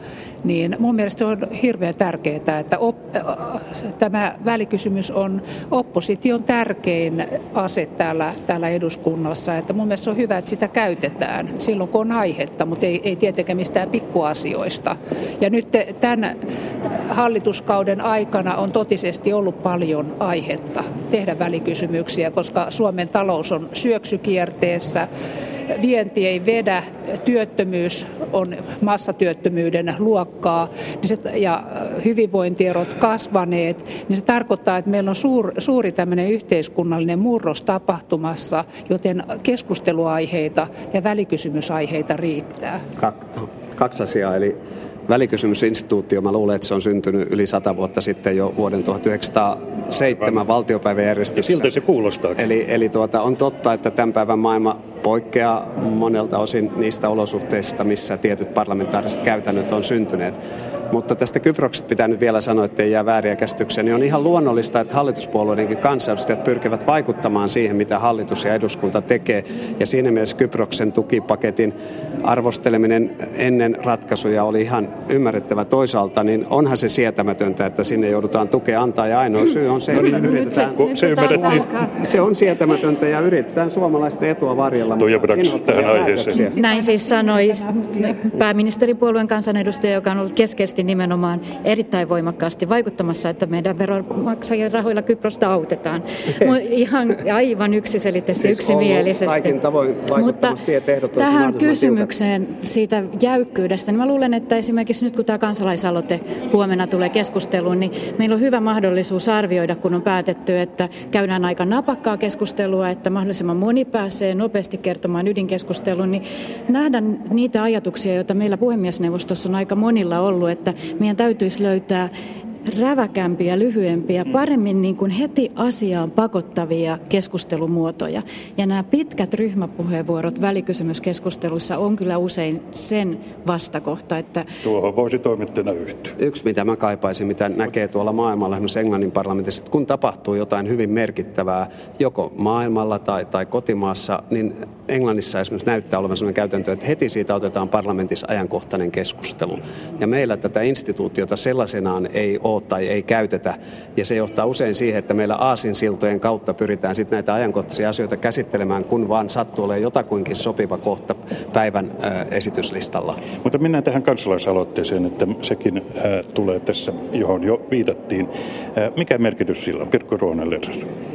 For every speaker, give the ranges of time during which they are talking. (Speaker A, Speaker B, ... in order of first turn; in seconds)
Speaker A: 0.4-16.3, 17.1-25.1, 25.7-42.8
Speaker B: 43.0-44.5, 45.1-51.7, 52.4-60.4, 60.9-81.3, 82.0-86.5, 98.4-102.1, 136.2-163.2
Speaker C: 51.4-52.5, 80.7-81.7, 85.0-86.5, 134.6-136.2, 163.4-170.9
Speaker D: 80.0-82.0, 86.4-99.5, 100.1-100.5, 101.2-122.1, 122.7-134.4